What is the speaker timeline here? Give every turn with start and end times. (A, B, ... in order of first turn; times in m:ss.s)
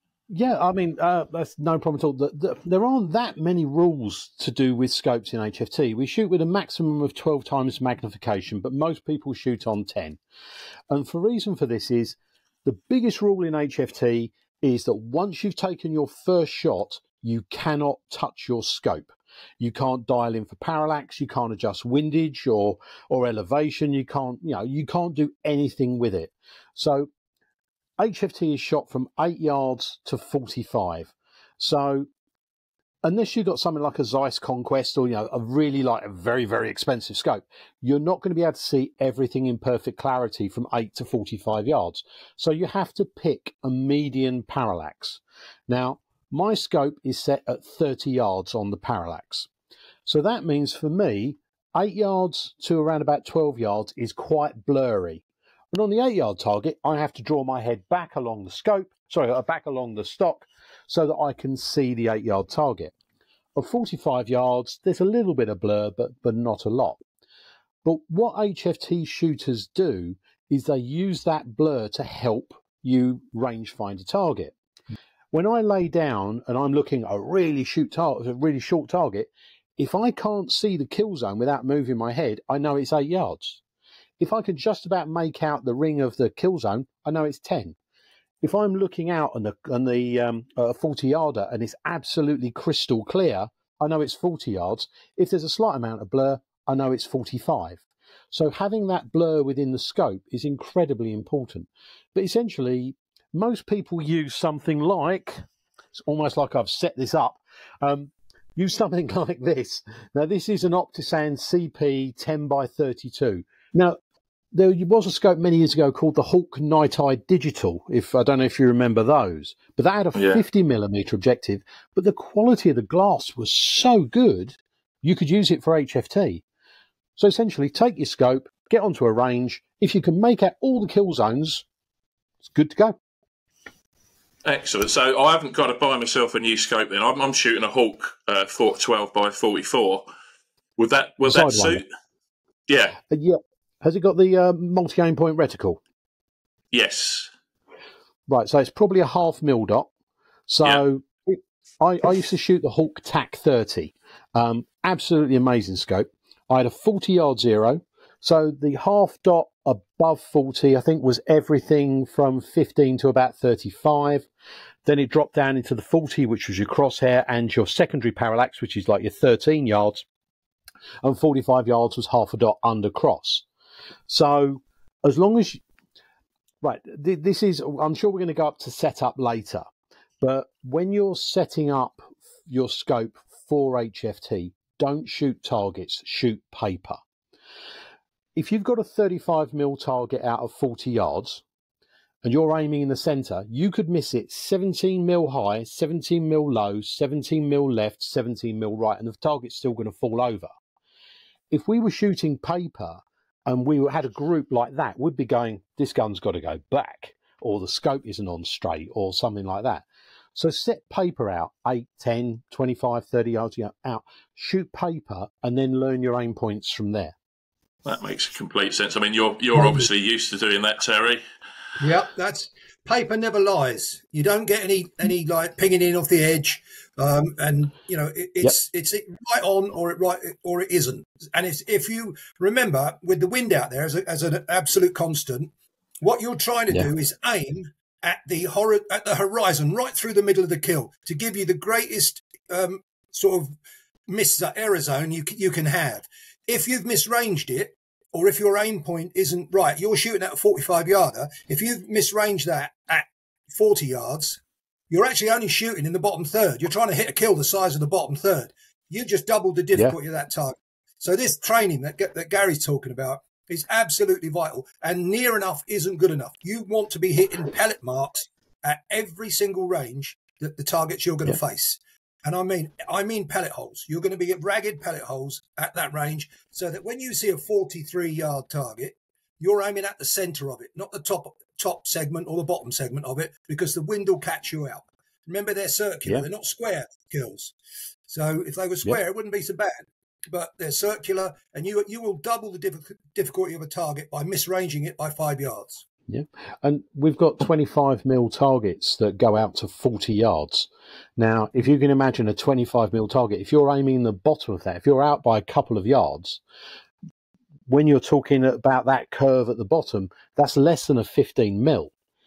0:00.3-0:10.2 A
0:10.9-0:27.1 A
0:28.0-0:32.1 A
0:33.0-0:49.5 A
0:50.0-1:02.9 A
1:03.6-1:07.0 A
1:07.8-1:14.5 A
1:15.3-1:23.6 A
1:24.2-1:27.8 A
1:28.4-1:45.4 A
1:45.9-1:54.0 A
1:54.5-2:06.4 A
2:00.1-2:00.4 B
2:07.2-2:11.6 A
2:12.4-2:13.0 A
2:14.4-2:20.1 B
2:20.8-2:21.8 B
2:21.2-2:21.8 A
2:22.7-2:23.0 B
2:23.1-2:25.8 A
2:26.7-2:27.3 B
2:28.3-2:29.9 A
2:30.5-2:44.3 A
2:44.8-2:50.0 A
2:51.0-2:53.4 A
2:54.1-2:55.6 A
2:56.6-2:59.6 A
3:00.2-3:07.0 A
3:08.3-3:11.4 A
3:12.2-3:20.5 A
3:21.5-3:37.2 A
3:37.8-3:41.2 B
3:39.6-3:39.9 C
3:41.8-4:03.5 C
4:04.1-4:47.6 C
4:48.1-4:55.8 C
4:56.1-5:06.4 A
5:07.7-5:11.9 A